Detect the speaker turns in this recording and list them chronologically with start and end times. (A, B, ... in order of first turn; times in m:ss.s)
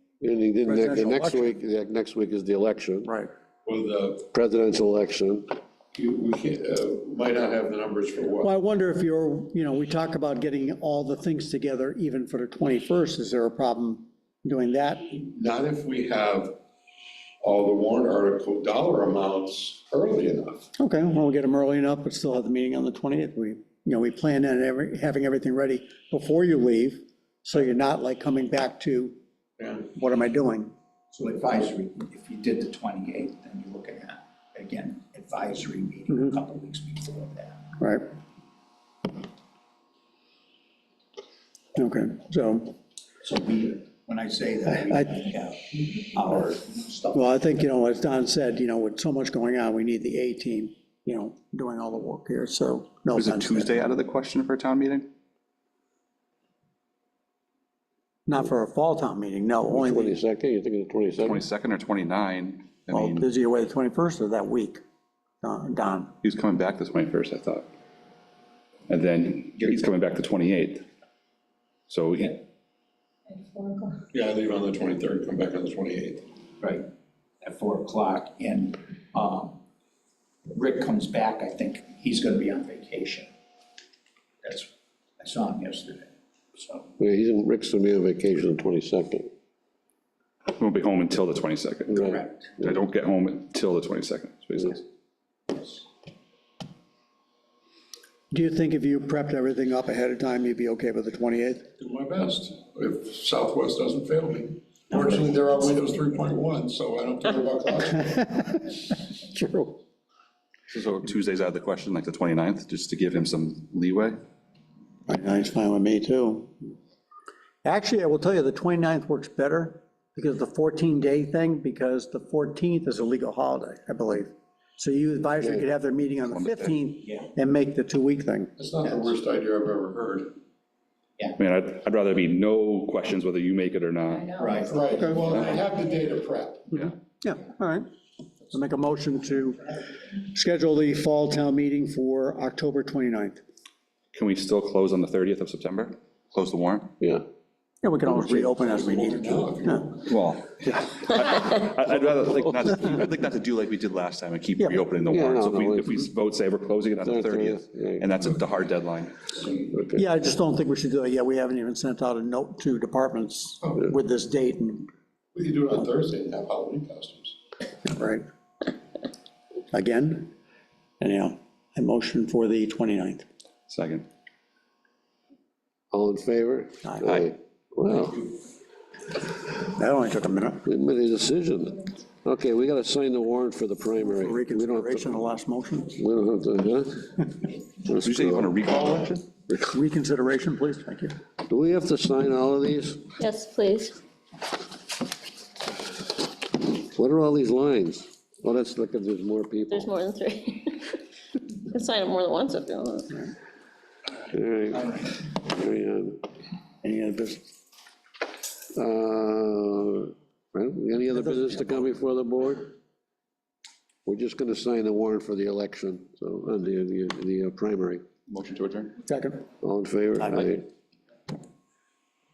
0:00.2-0:03.1 A
0:00.6-0:01.6 B
0:03.0-0:03.3 B
0:03.6-0:04.3 C
0:04.3-0:05.5 A
0:05.9-0:08.5 C
0:08.4-0:15.0 B
0:15.1-0:16.6 C
0:17.4-0:20.7 C
0:20.8-0:30.7 B
0:31.1-0:37.6 D
0:36.1-0:36.3 B
0:37.8-0:38.0 B
0:41.8-0:42.7 B
0:43.2-0:47.3 D
0:44.6-0:45.2 B
0:47.1-0:53.8 B
0:53.1-0:55.1 E
0:58.3-1:00.2 B
0:59.7-1:01.4 A
1:01.2-1:03.2 E
1:02.9-1:04.8 B
1:05.4-1:06.1 B
1:06.2-1:07.7 E
1:08.9-1:10.8 E
1:11.9-1:12.4 E
1:13.3-1:14.0 F
1:14.1-1:16.3 C
1:16.6-1:16.8 D
1:17.4-1:19.6 D
1:20.5-1:23.3 D
1:24.4-1:24.7 D
1:25.2-1:26.9 D
1:27.0-1:29.3 A
1:30.6-1:34.8 E
1:31.9-1:32.2 A
1:32.0-1:32.5 D
1:38.3-1:41.7 B
1:41.8-1:48.3 C
1:48.1-1:49.8 B
1:50.7-1:54.2 E
1:55.1-1:56.7 B
1:57.6-2:09.1 B
2:06.2-2:06.8 E
2:08.6-2:10.3 C
2:11.4-2:14.3 E
2:14.1-2:15.8 F
2:14.3-2:14.8 D
2:14.6-2:16.8 C
2:15.0-2:15.3 B
2:15.3-2:15.6 E
2:16.8-2:17.9 B
2:18.5-2:23.4 B
2:24.1-2:26.9 E
2:27.8-2:29.9 B
2:28.5-2:30.1 C
2:30.0-2:39.3 E
2:35.0-2:36.1 A
2:36.9-2:38.1 A
2:39.3-2:39.7 C
2:39.7-2:40.1 A
2:39.9-2:44.9 B
2:45.3-2:47.4 C
2:47.8-2:48.2 B
2:49.7-2:50.3 B
2:51.0-2:53.2 B
2:53.7-2:54.1 E
2:55.9-2:58.3 A
2:59.6-3:00.6 B
3:00.6-3:05.2 A
3:04.0-3:06.0 B
3:06.0-3:07.3 A
3:07.9-3:08.5 A
3:08.0-3:09.2 E
3:09.5-3:11.1 B
3:11.5-3:13.1 A
3:13.2-3:14.0 F
3:16.8-3:19.9 A
3:19.7-3:21.0 F
3:21.6-3:23.2 F
3:24.3-3:26.2 A
3:26.8-3:27.5 B
3:28.7-3:32.7 A
3:31.2-3:31.8 B
3:34.0-3:38.0 A
3:38.3-3:39.0 E
3:39.0-3:39.4 B
3:39.6-3:40.6 A
3:40.2-3:40.5 B